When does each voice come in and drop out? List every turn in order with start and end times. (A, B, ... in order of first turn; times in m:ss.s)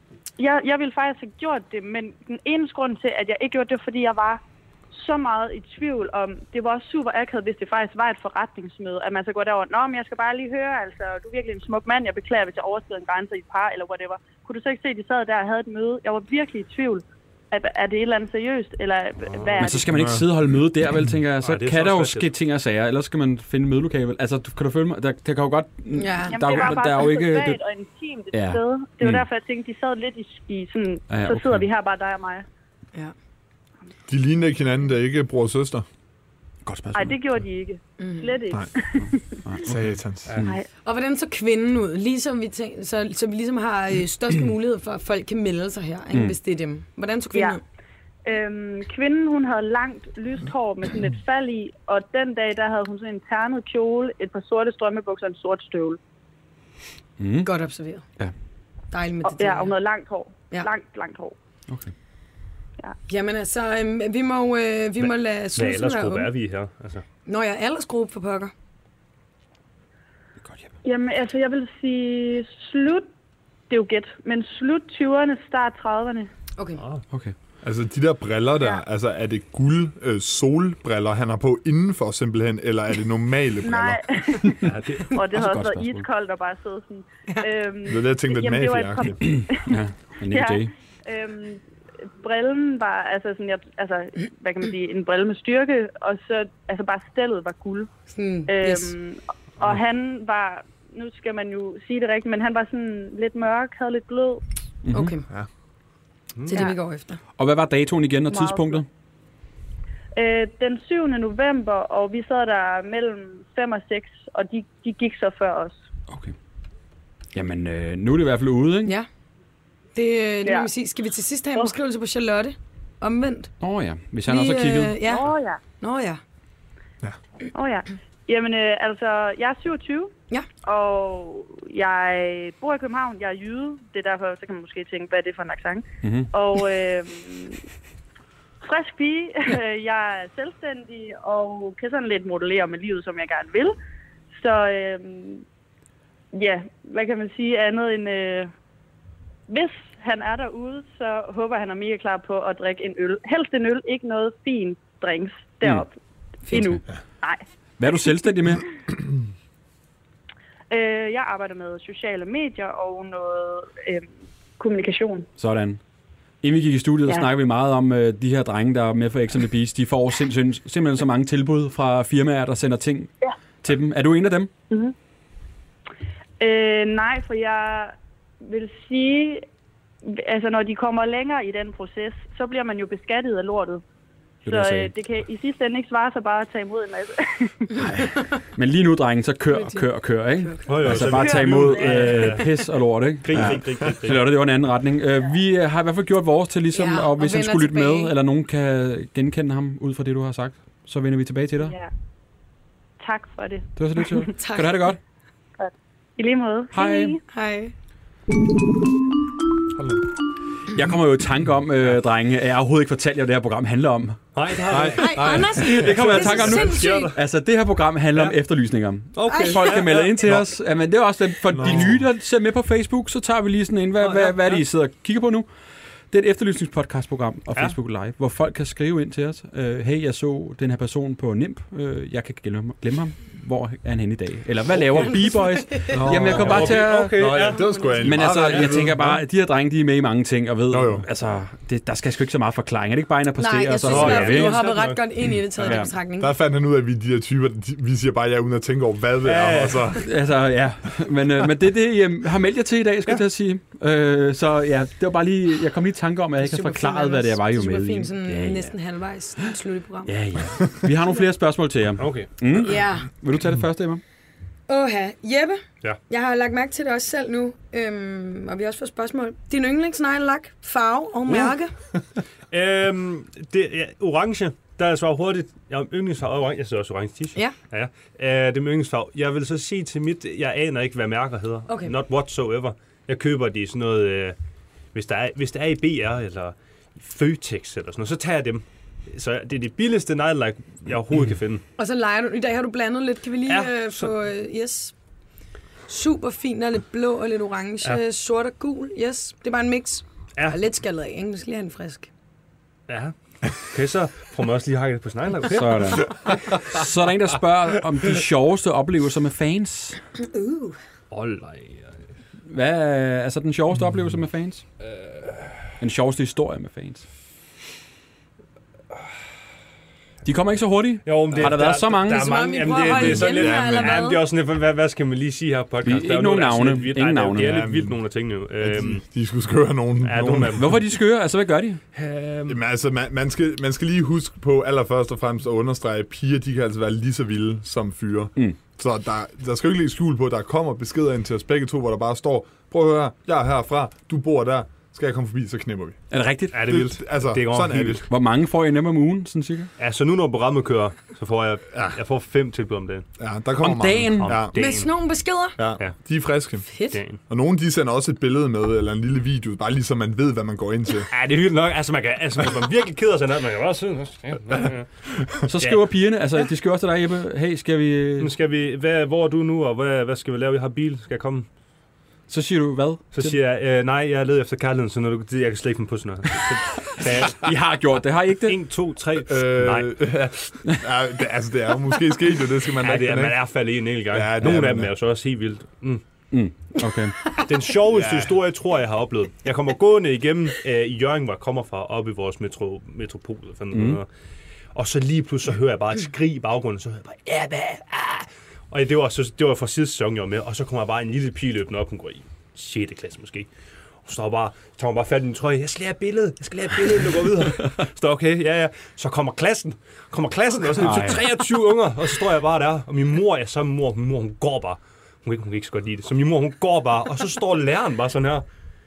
0:00.4-0:20.1 A
0:19.6-0:27.6 B
0:19.9-0:20.2 C
0:21.4-0:22.3 D
0:25.9-0:26.4 E
0:26.3-0:32.4 A
0:28.3-0:29.2 B
0:31.1-0:31.6 B
0:34.1-0:35.8 C
0:36.6-0:37.2 B
0:36.9-0:39.4 A
0:38.0-0:38.3 E
0:39.4-0:39.8 B
0:39.6-0:40.4 C
0:40.3-0:40.5 D
0:40.8-0:47.6 E
0:47.3-0:47.6 A
0:48.3-0:56.0 A
0:57.2-0:57.5 B
0:57.4-0:58.0 E
0:58.9-0:59.7 E
0:59.2-1:01.4 A
1:03.1-1:06.3 E
1:05.0-1:07.0 D
1:07.3-1:08.5 E
1:10.8-1:13.1 A
1:13.7-1:16.3 A
1:16.6-1:16.8 E
1:17.6-1:24.6 C
1:23.6-1:31.6 A
1:24.6-1:25.1 D
1:25.3-1:26.0 B
1:27.9-1:29.2 C
1:29.3-1:30.7 B
1:32.2-1:37.9 A
1:38.1-1:38.9 E
1:38.5-1:44.4 A
1:44.8-1:45.2 B
1:44.9-1:45.3 E
1:46.5-1:47.2 E
1:47.4-1:48.9 B
1:48.3-1:48.8 A
1:50.2-1:55.8 A
1:56.1-1:56.4 B
1:57.3-1:58.9 B
1:59.9-2:03.5 E
2:00.4-2:00.7 A
2:03.6-2:05.0 B
2:04.3-2:05.3 E
2:05.0-2:05.6 A
2:05.8-2:06.2 E
2:07.5-2:17.6 A
2:16.0-2:16.3 B
2:18.6-2:23.8 A
2:24.3-2:25.4 A
2:26.3-2:28.5 A
2:29.5-2:38.2 A
2:36.5-2:36.8 B
2:37.8-2:38.7 B
2:40.7-2:45.3 A
2:45.4-2:45.8 B
2:46.4-2:53.1 B
2:53.6-2:54.5 B
2:54.7-2:54.9 A
2:56.4-2:59.4 A
3:00.0-3:03.8 A
3:04.4-3:04.9 B
3:04.4-3:07.9 A
3:07.8-3:21.7 B
3:09.5-3:09.9 E
3:10.7-3:12.5 D
3:10.9-3:12.3 A
3:13.2-3:14.2 D
3:16.7-3:18.1 E
3:21.6-3:21.9 A
3:23.0-3:24.3 A
3:23.8-3:25.0 B
3:24.4-3:24.9 E
3:25.6-3:27.2 A
3:26.7-3:27.2 B
3:27.3-3:27.7 E
3:30.7-3:34.2 B
3:34.4-3:35.2 D
3:34.7-3:36.0 C
3:35.0-3:37.1 E
3:35.6-3:45.5 B
3:35.8-3:37.2 D
3:39.1-3:40.4 D
3:39.3-3:39.8 E
3:41.5-3:42.0 C
3:44.0-3:44.6 D
3:46.1-3:57.4 B
3:55.9-3:59.2 C
3:56.1-3:58.8 D
3:58.0-4:04.7 B
4:00.7-4:01.1 C
4:03.4-4:06.3 E
4:03.8-4:05.0 D
4:05.6-4:05.9 B
4:06.2-4:10.0 C
4:09.2-4:10.0 D
4:10.0-4:18.7 B
4:16.4-4:20.1 E
4:20.1-4:24.0 B
4:22.0-4:22.3 D
4:22.6-4:23.1 E
4:24.7-4:31.7 E
4:32.5-4:44.4 D
4:41.7-4:41.9 E
4:44.9-4:51.6 D
4:51.8-4:54.9 E
4:53.5-4:54.1 D
4:55.9-5:02.1 E
5:02.9-5:06.3 D
5:05.4-5:10.0 B
5:10.2-5:10.8 E
5:11.1-5:11.9 D
5:12.5-5:14.6 B
5:14.9-5:15.5 D
5:15.8-5:17.0 B
5:20.2-5:22.4 B
5:21.0-5:29.0 D
5:22.1-5:24.2 E
5:22.9-5:24.1 C
5:25.8-5:27.6 B
5:27.4-5:28.0 C
5:28.6-5:30.7 C
5:30.0-5:30.7 D
5:30.6-5:31.8 B
5:31.9-5:32.6 D
5:32.5-5:46.0 C
5:46.1-5:46.8 B
5:46.5-5:48.0 D
5:46.6-5:48.0 C
5:48.0-5:49.7 B
5:49.8-5:53.1 D
5:53.2-5:54.5 C
5:53.6-5:54.4 B
5:54.2-5:54.9 D
5:54.6-5:55.6 E
5:55.6-5:56.7 C
5:56.7-5:57.0 E
5:56.9-5:57.2 D
5:57.3-6:01.1 C
6:01.1-6:04.9 D
6:05.5-6:08.3 B
6:08.2-6:11.5 D
6:12.3-6:13.4 B
6:13.1-6:17.5 D
6:17.3-6:18.6 B
6:18.4-6:19.9 D
6:19.3-6:23.5 C
6:22.8-6:26.0 D
6:24.1-6:24.9 C
6:26.3-6:27.4 B
6:27.4-6:34.1 D
6:27.9-6:28.4 C
6:33.7-6:34.0 B
6:34.8-6:43.5 D
6:44.0-6:58.4 D
6:50.8-6:51.3 B